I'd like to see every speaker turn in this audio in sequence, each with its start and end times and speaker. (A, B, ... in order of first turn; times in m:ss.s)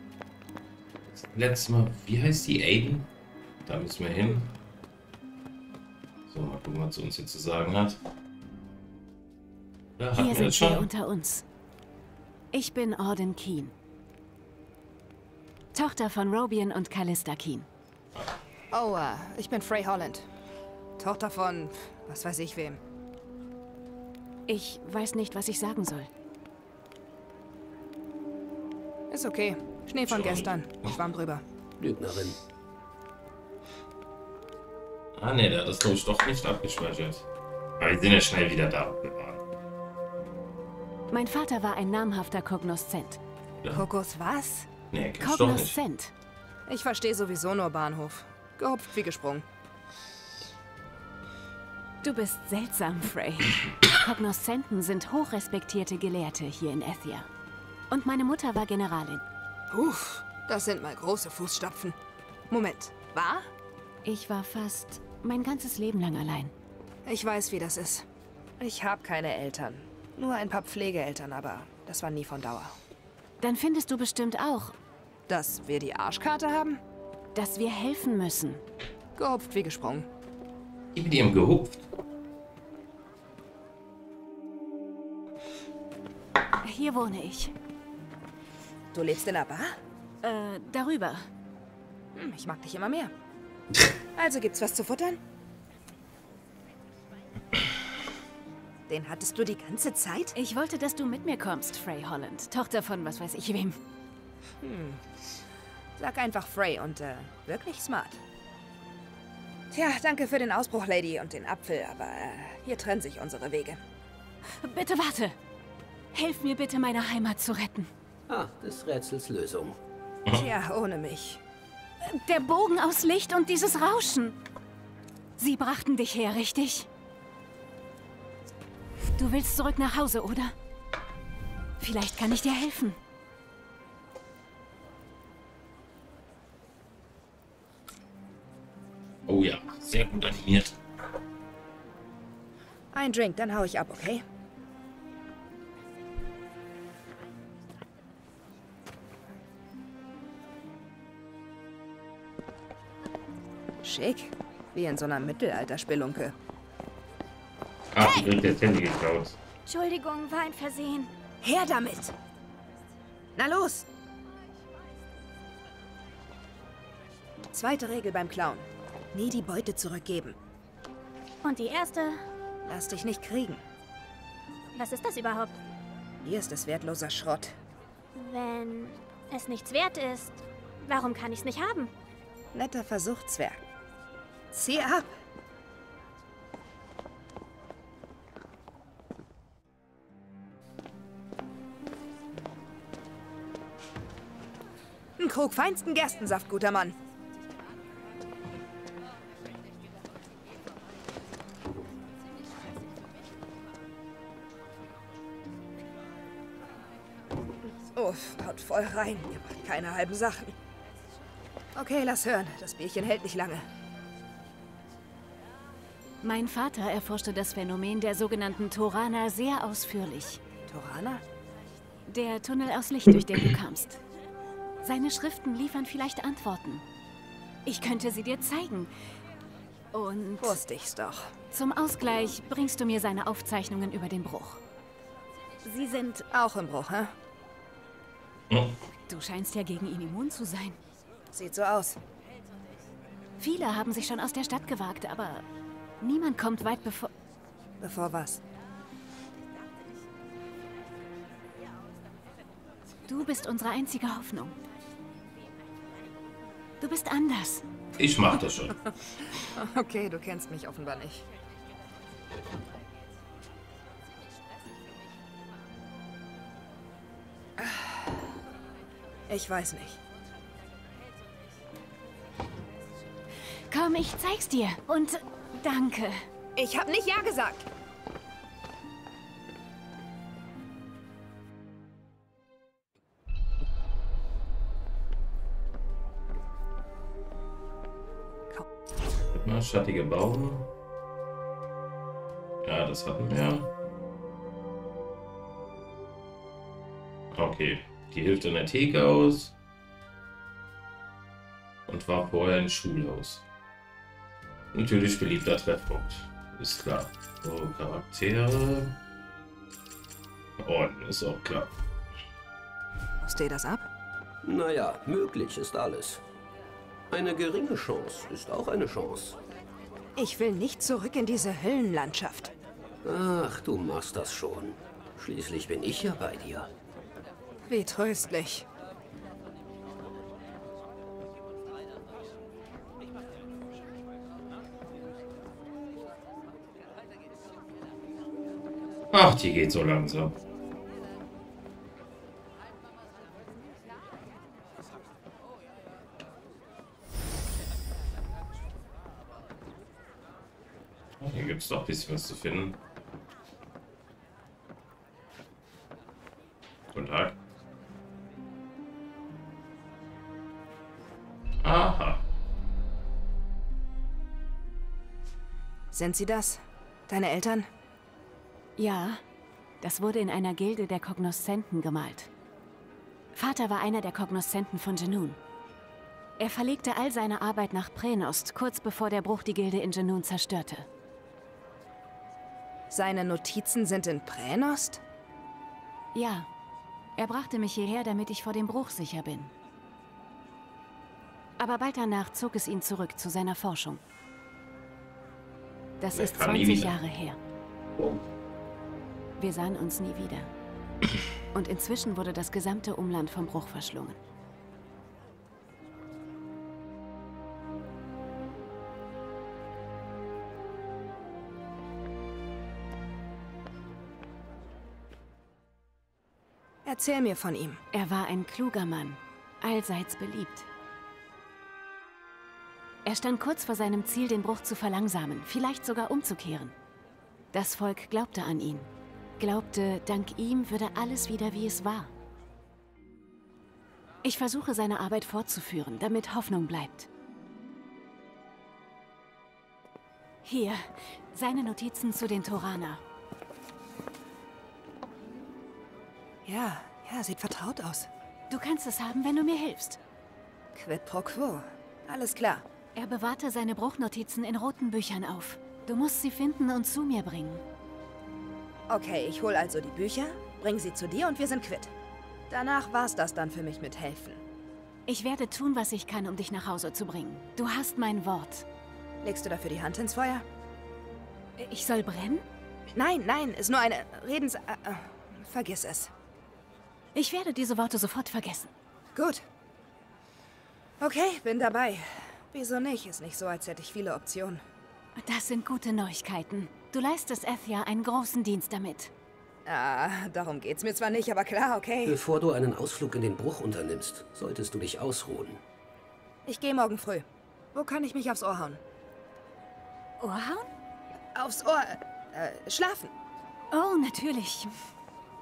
0:01.1-0:03.1 A
0:03.6-0:04.5 A
0:06.3-0:08.0 A
0:10.0-0:10.9 A
0:10.1-0:11.4 B
0:12.5-0:13.7 B
0:15.7-0:17.7 B
0:18.7-0:20.2 C
0:21.0-0:22.8 C
0:24.5-0:26.1 B
0:29.1-0:31.4 C
0:30.1-0:30.9 A
0:31.8-0:32.4 D
0:35.2-0:37.2 A
0:37.8-0:39.4 A
0:41.1-0:43.2 B
0:43.7-0:44.7 C
0:44.9-0:45.8 A
0:45.2-0:46.1 B
0:46.7-0:49.4 C
0:52.0-0:57.3 B
0:57.9-0:59.2 B
0:59.7-1:02.0 C
1:02.5-1:03.5 C
1:04.0-1:06.5 B
1:07.0-1:08.0 C
1:08.6-1:12.8 C
1:13.4-1:14.8 B
1:15.3-1:16.8 C
1:17.3-1:18.6 B
1:19.2-1:20.1 C
1:20.9-1:21.8 A
1:26.6-1:27.5 B
1:28.9-1:29.8 C
1:30.2-1:31.3 B
1:32.1-1:33.1 C
1:34.2-1:35.2 C
1:38.9-1:40.3 C
1:40.4-1:43.8 B
1:44.6-1:45.0 C
1:46.0-1:48.2 C
1:49.7-1:53.8 C
1:54.6-1:55.4 B
1:56.1-1:57.9 B
1:58.3-1:59.8 D
2:00.3-2:01.4 C
2:02.0-2:04.4 B
2:05.4-2:06.9 B
2:09.1-2:10.5 B
2:11.8-2:13.0 B
2:19.3-2:20.8 A
2:22.9-2:24.2 C
2:33.8-2:36.3 C
2:37.9-2:39.4 A
2:39.6-2:41.1 E
2:41.4-2:42.1 C
2:43.4-2:43.8 C
2:47.5-2:50.4 C
2:51.4-2:52.2 E
2:52.7-2:53.6 C
2:54.7-2:55.6 E
2:56.2-2:57.6 C
2:58.1-3:01.9 E
3:02.5-3:03.6 C
3:04.5-3:05.1 C
3:15.2-3:16.9 C
3:27.9-3:30.5 C
3:31.8-3:33.6 C
3:36.2-3:40.4 B
3:40.7-3:41.2 C
3:42.1-3:44.0 B
3:44.8-3:46.8 B
3:47.6-3:48.9 B
3:49.9-3:50.6 B
3:50.4-3:51.3 C
3:51.5-3:54.6 B
3:55.6-3:56.3 B
3:56.3-3:57.1 C
3:58.5-3:58.8 A
3:59.1-4:00.8 B
4:01.3-4:02.0 C
4:03.4-4:05.4 B
4:06.0-4:07.1 B
4:07.8-4:08.4 C
4:13.1-4:14.6 B
4:16.8-4:17.6 B
4:18.0-4:18.9 A
4:19.5-4:21.2 C
4:27.6-4:28.2 C
4:29.3-4:30.0 C
4:33.7-4:36.3 B
4:36.6-4:37.6 C
4:49.3-4:50.7 A
4:52.6-4:53.7 A
4:57.3-4:59.5 A
5:01.9-5:03.4 A
5:04.7-5:09.0 A
5:10.6-5:11.7 A
5:13.2-5:13.9 C
5:14.4-5:16.2 D
5:17.1-5:19.4 D
5:20.2-5:22.5 C
5:23.0-5:26.7 D
5:27.7-5:28.6 C
5:39.1-5:40.4 A
5:51.2-5:52.8 A
5:56.9-5:57.3 A
6:01.6-6:02.2 A
6:05.9-6:07.7 C
6:08.8-6:09.2 B
6:09.8-6:12.3 B
6:13.3-6:15.4 B
6:16.4-6:20.9 B
6:22.9-6:25.0 C
6:26.1-6:26.5 B
6:27.2-6:29.5 B
6:31.6-6:34.0 B
6:36.0-6:37.4 B
6:36.1-6:36.9 A
6:38.0-6:38.2 A
6:39.4-6:40.5 B
6:41.5-6:44.2 B
6:56.8-6:57.8 C
6:57.9-7:00.7 B
7:03.0-7:06.7 B
7:07.5-7:12.1 B
7:14.2-7:17.1 B
7:20.4-7:23.0 B
7:26.4-7:28.1 C
7:28.5-7:30.0 B
7:30.7-7:32.6 C
7:32.9-7:37.6 B
7:38.9-7:41.9 C
7:42.5-7:44.4 C
7:45.1-7:48.6 B
7:49.2-7:50.4 C
7:51.6-7:52.4 B
7:52.9-7:56.1 C
7:57.1-7:58.7 B
7:59.1-7:59.4 C
8:01.0-8:04.6 C
8:05.2-8:09.1 B
8:09.6-8:12.2 C
8:12.0-8:15.6 D
8:16.4-8:18.8 C
8:20.2-8:20.6 B
8:21.3-8:23.1 C
8:23.7-8:24.7 B